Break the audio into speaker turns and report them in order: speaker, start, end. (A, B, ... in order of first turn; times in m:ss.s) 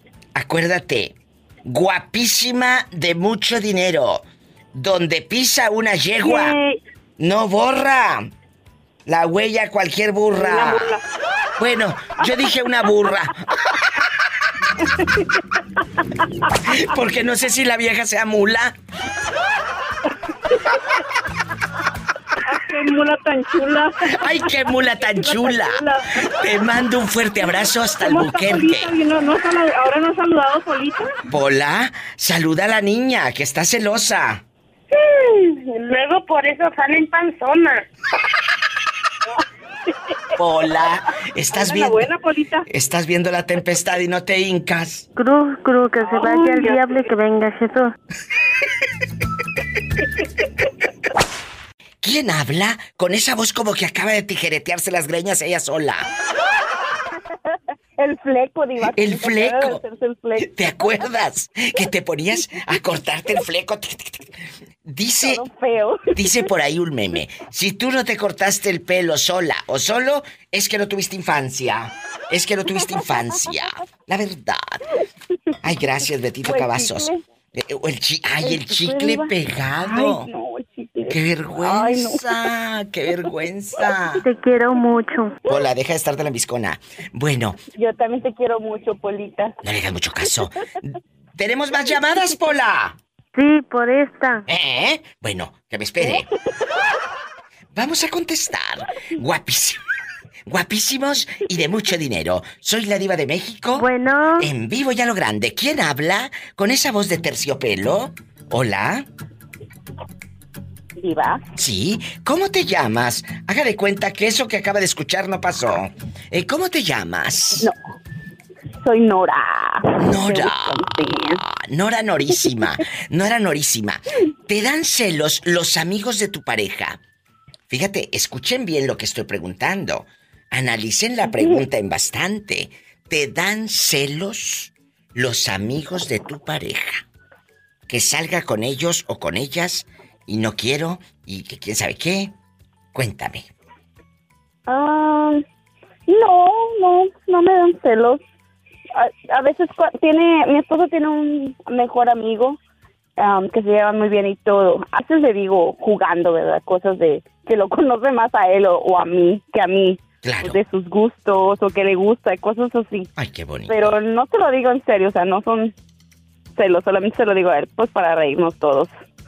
0:00.4-0:06.6 A
0:06.2-0:06.8 B
0:07.2-0:08.3 A
0:09.1-0:11.0 A
0:10.3-0:11.0 B
0:11.6-0:13.4 A
0:16.7-0:18.8 A
0:22.5-0:26.6 B
0:24.1-0:28.9 A
0:28.0-0:31.1 B
0:31.3-0:34.4 A
0:34.9-0:37.8 C
0:40.4-0:42.1 A
0:41.5-0:42.7 B
0:42.7-0:45.1 A
0:45.2-0:47.9 D
0:52.0-0:56.1 A
0:58.0-1:00.8 E
0:58.8-0:59.8 A
1:00.4-1:04.3 A
1:04.8-1:05.4 A
1:05.2-1:06.3 E
1:06.1-1:14.8 A
1:15.6-1:20.3 A
1:16.4-1:17.2 E
1:18.4-1:22.3 E
1:21.1-1:24.2 A
1:24.3-1:25.4 D
1:25.5-1:27.6 A
1:27.8-1:29.6 E
1:29.6-1:33.0 A
1:33.4-1:34.4 D
1:34.5-1:36.3 A
1:36.0-1:36.3 E
1:37.8-1:39.8 A
1:40.5-1:43.9 A
1:43.8-1:44.5 D
1:44.4-1:49.1 A
1:51.0-1:51.4 E
1:51.6-1:57.7 A
1:58.8-2:01.4 E
2:00.0-2:00.8 A
2:01.4-2:07.0 A
2:07.7-2:17.0 A
2:17.9-2:22.3 A
2:22.9-2:23.5 A
2:24.7-2:25.4 E
2:26.1-2:28.2 E
2:29.0-2:32.6 E
2:33.2-2:43.1 E
2:40.2-2:40.6 A
2:43.2-2:44.0 A
2:43.7-2:45.7 E
2:46.6-2:49.0 E